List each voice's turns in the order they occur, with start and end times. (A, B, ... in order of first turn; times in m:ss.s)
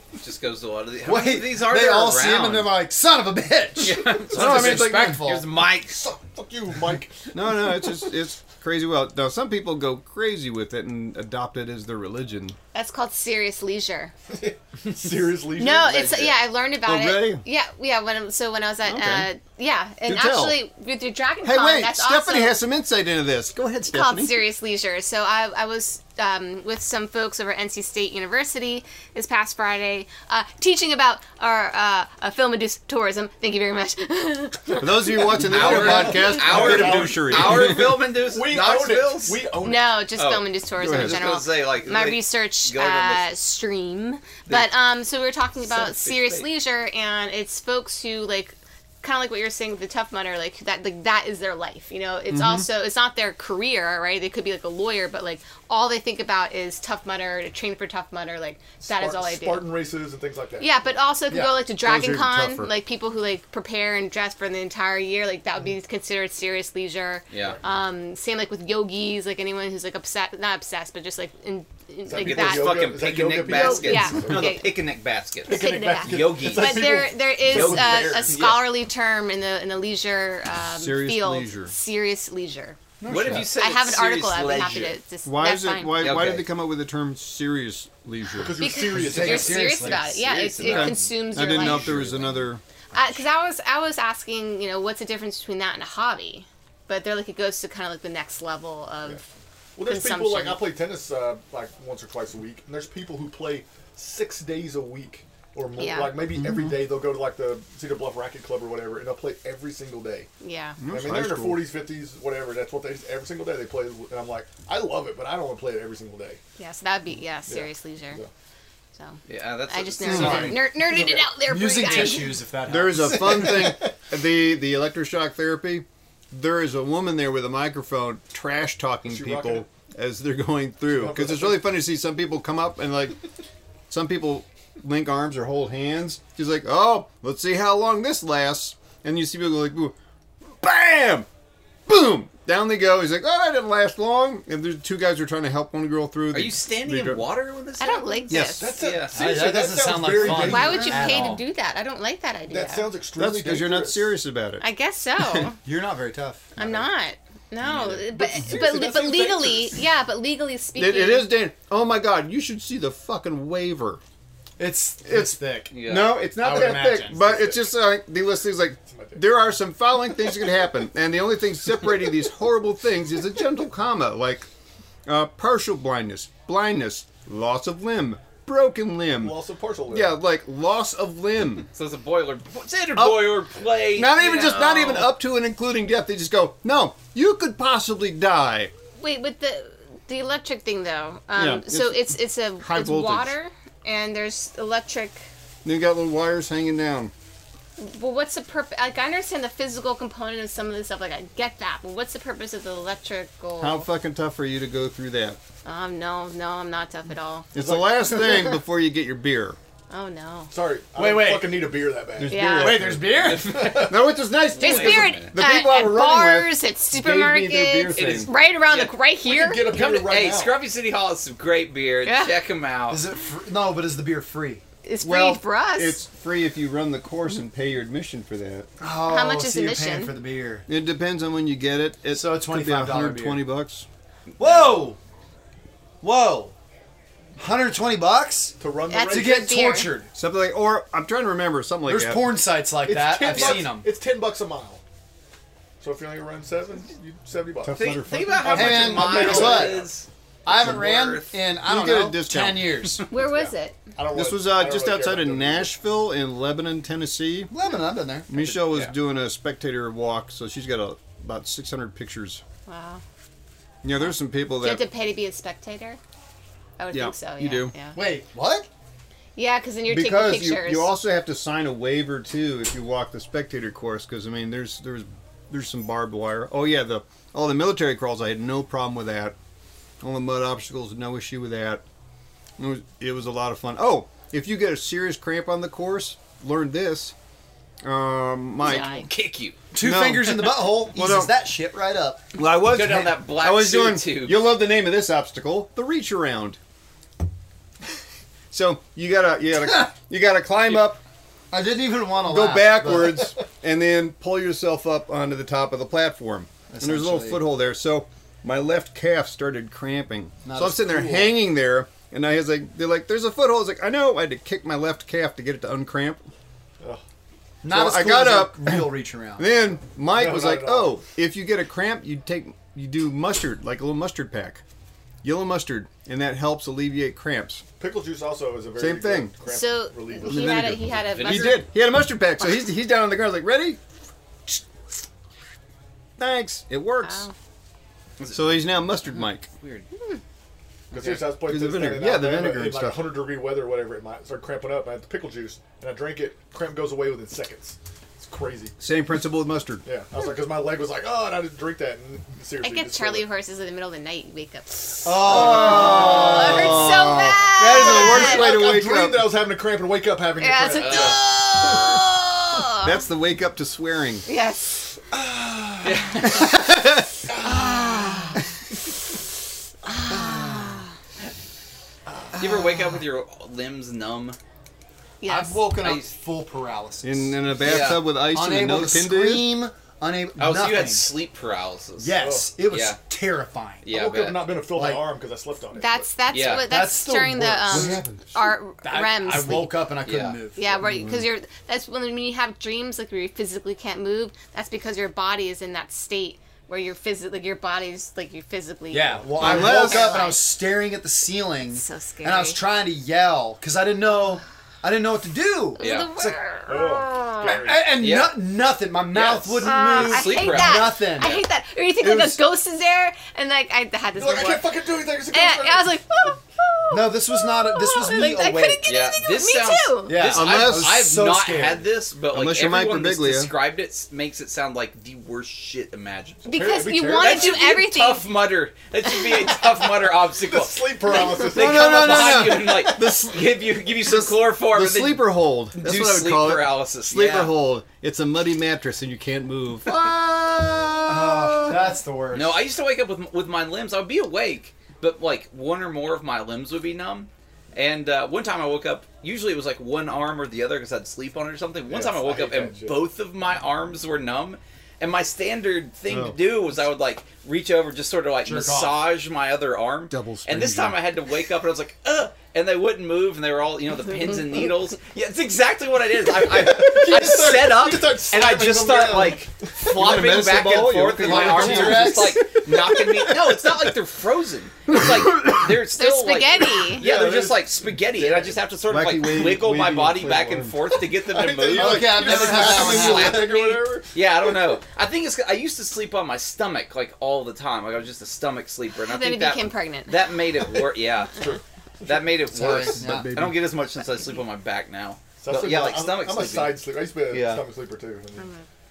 0:00.2-0:02.8 A
0:01.0-0:05.6 B
0:03.8-0:06.0 A
0:04.3-0:05.4 C
0:06.0-0:07.0 D
0:07.3-0:12.6 C
0:12.7-0:14.1 E
0:14.3-0:16.3 D
0:15.5-0:22.6 E
0:16.8-0:17.4 C
0:18.8-0:19.3 C
0:20.0-0:20.6 C
0:21.4-0:24.4 C
0:23.9-0:35.2 E
0:34.8-0:38.0 C
0:35.4-0:37.8 B
0:35.4-0:39.4 A
0:35.8-0:37.0 E
0:38.4-0:39.7 D
0:39.5-0:59.7 E
0:40.1-0:43.4 A
0:40.8-0:41.2 C
0:44.5-0:44.7 A
0:45.6-0:46.5 A
0:52.3-0:52.7 C
0:58.9-1:00.6 D
0:59.4-0:59.8 B
1:00.6-1:12.8 E
1:01.3-1:01.5 B
1:01.8-1:02.7 C
1:07.3-1:07.6 A
1:12.1-1:18.6 A
1:12.1-1:12.6 B
1:12.7-1:13.9 D
1:13.4-1:14.4 B
1:13.4-1:14.4 C
1:13.4-1:14.7 E
1:15.4-1:26.1 E
1:15.5-1:17.1 D
1:15.9-1:18.3 B
1:17.9-1:18.2 D
1:20.7-1:21.7 C
1:23.0-1:23.5 B
1:23.0-1:23.5 C
1:23.1-1:25.0 A
1:25.2-1:28.8 C
1:26.0-1:26.4 A
1:28.4-1:30.2 B
1:28.6-1:31.9 E
1:28.9-1:29.6 D
1:30.1-1:31.0 A
1:30.6-1:32.6 C
1:31.7-1:32.2 B
1:32.9-1:39.2 E
1:39.8-1:50.3 D
1:39.8-1:40.6 E
1:45.8-1:46.2 E
1:46.4-1:46.7 C
1:46.5-1:46.8 B
1:50.4-1:50.8 E
1:50.8-1:51.7 C
1:51.0-1:56.4 D
1:56.6-1:58.2 E
1:57.4-1:58.3 D
1:58.9-2:02.4 E
1:59.3-2:00.6 A
2:00.0-2:03.9 B
2:00.0-2:00.6 C
2:02.6-2:13.2 C
2:09.1-2:09.6 D
2:11.0-2:11.3 D
2:13.9-2:20.0 C
2:20.6-2:21.3 C
2:21.9-2:27.2 C
2:26.3-2:29.5 A
2:27.8-2:28.8 E
2:28.3-2:28.8 C
2:28.6-2:31.4 B
2:28.7-2:30.6 D
2:30.3-2:32.9 E
2:32.5-2:34.0 D
2:33.2-2:34.6 C
2:34.6-2:35.6 E
2:35.6-2:36.6 B
2:36.5-2:41.3 E
2:37.8-2:39.6 D
2:38.3-2:38.8 B
2:40.7-2:44.0 C
2:44.6-2:45.8 B
2:45.0-2:54.5 C
2:45.7-2:46.2 A
2:46.3-2:47.6 B
2:55.1-2:59.4 C
2:59.2-3:00.1 D
2:59.9-3:01.7 C
3:01.7-3:05.1 A
3:03.0-3:08.7 C
3:09.0-3:15.2 E
3:11.4-3:13.3 C
3:15.6-3:17.1 C
3:17.8-3:23.9 E
3:23.6-3:25.4 C
3:25.6-3:27.5 E
3:27.5-3:29.6 C
3:27.6-3:28.6 B
3:29.9-3:30.5 E
3:30.5-3:32.2 D
3:30.9-3:33.9 B
3:32.2-3:33.0 C
3:32.3-3:32.8 E
3:33.1-3:34.0 A
3:33.5-3:38.3 C
3:34.5-3:35.3 A
3:34.5-3:39.7 E
3:37.9-3:39.0 A
3:39.3-3:40.5 D
3:39.4-3:39.8 B
3:39.6-3:43.1 A
3:42.0-3:42.4 E
3:42.9-3:44.6 B
3:44.8-3:46.0 E
3:45.0-3:48.7 C
3:48.8-3:50.6 B
3:49.0-3:50.1 E
3:50.7-3:53.9 C
3:52.1-3:53.4 B
3:54.4-3:54.9 A
3:54.4-3:55.0 B
3:56.0-3:56.5 B
3:57.4-4:00.1 B
3:58.6-3:59.0 D
3:58.9-4:00.0 E
4:00.1-4:02.4 C
4:01.9-4:04.2 B
4:02.8-4:04.8 D
4:03.3-4:03.7 A
4:05.8-4:07.8 D
4:07.6-4:08.5 C
4:07.7-4:11.3 A
4:08.4-4:09.8 B
4:08.4-4:09.8 D
4:10.4-4:13.2 B
4:11.5-4:13.0 C
4:13.1-4:13.8 E
4:13.3-4:15.6 D
4:14.1-4:17.5 C
4:17.5-4:18.5 B
4:18.3-4:22.4 C
4:18.6-4:18.9 A
4:22.7-4:23.0 E
4:23.8-4:24.9 C
4:24.5-4:26.0 E
4:26.8-4:28.0 E
4:26.9-4:27.7 C
4:27.9-4:28.7 B
4:29.4-4:30.9 E
4:29.9-4:39.4 C
4:40.0-4:41.8 C
4:42.6-4:47.1 C
4:47.8-4:49.0 C
4:48.6-4:49.0 E
4:48.6-4:49.6 A
4:49.7-4:52.2 B
4:49.7-4:51.3 C
4:52.3-4:56.6 C
4:52.6-4:54.5 A
4:58.5-5:01.0 C
5:01.5-5:03.3 B
5:02.2-5:16.2 C
5:06.7-5:07.4 B
5:10.4-5:11.4 B
5:17.6-5:19.5 B
5:17.7-5:24.6 C
5:20.2-5:20.6 B
5:20.3-5:20.8 D
5:25.2-5:27.6 C
5:27.8-5:30.3 D
5:28.8-5:29.4 C
5:29.4-5:31.7 E
5:30.2-5:33.8 C
5:31.1-5:31.6 A
5:36.2-5:37.3 C
5:37.0-5:37.3 E
5:38.2-5:38.8 A
5:38.3-5:39.5 C
5:39.6-5:39.9 A
5:40.9-5:43.2 C
5:40.9-5:48.7 D
5:48.8-5:49.8 C
5:49.9-5:53.2 D
5:52.6-5:58.5 E
5:55.0-5:58.6 B
5:55.1-5:59.3 C
5:58.6-6:01.2 D
6:00.4-6:03.0 E
6:00.5-6:01.0 B
6:00.7-6:02.0 A
6:02.8-6:04.2 C
6:04.3-6:04.8 E
6:05.1-6:05.9 B
6:05.8-6:06.4 A
6:07.3-6:08.2 B
6:07.3-6:08.3 C
6:09.9-6:10.9 E
6:10.1-6:10.6 B
6:12.4-6:14.4 A
6:15.2-6:15.8 E
6:15.2-6:21.2 B
6:15.8-6:16.1 A
6:17.0-6:19.6 C
6:17.6-6:18.1 A
6:20.4-6:23.0 A
6:22.0-6:24.0 B
6:22.2-6:22.5 D
6:23.8-6:24.5 A
6:24.0-6:26.2 D
6:24.6-6:25.3 B
6:25.7-6:29.8 E
6:26.3-6:26.7 A
6:26.3-6:28.3 B
6:27.6-6:28.2 C
6:28.8-6:30.8 B
6:30.0-6:30.4 A
6:30.5-6:40.5 E
6:30.8-6:31.2 C
6:38.9-6:45.8 B
6:39.2-6:39.5 D
6:39.4-6:40.3 C
6:41.7-6:42.6 E
6:45.8-6:47.6 E
6:45.8-6:46.1 A
6:46.7-6:47.9 D
6:47.4-6:51.3 B
6:47.9-6:48.4 A
6:49.1-6:51.4 A
6:49.6-7:00.2 E
6:52.0-6:52.4 B
6:54.2-6:55.9 D
6:56.9-6:58.8 B
6:58.8-7:06.6 A
7:00.1-7:01.9 B
7:00.1-7:01.1 C
7:02.3-7:03.5 C
7:06.4-7:08.3 E
7:06.6-7:07.6 D
7:06.8-7:07.3 B
7:07.2-7:17.5 A
7:09.0-7:09.4 E
7:10.5-7:11.8 D
7:11.4-7:13.5 C
7:14.6-7:21.8 C
7:21.0-7:22.6 B
7:22.3-8:17.6 A
7:36.1-7:36.4 C
7:38.4-7:39.1 B
7:40.1-7:41.0 C
7:46.7-7:47.9 B
7:47.0-7:49.3 D
7:49.8-7:53.8 C
7:51.2-7:52.4 B
7:54.9-7:55.8 C
7:55.9-7:57.1 E
7:57.0-7:57.4 B
7:57.0-7:58.6 D
7:58.9-8:00.2 C
8:00.2-8:00.7 D
8:01.4-8:04.0 D
8:01.7-8:03.6 B
8:01.7-8:02.7 C
8:09.0-8:10.3 E
8:12.4-8:13.3 B
8:12.7-8:13.6 C
8:15.4-8:18.4 D
8:18.3-8:18.6 E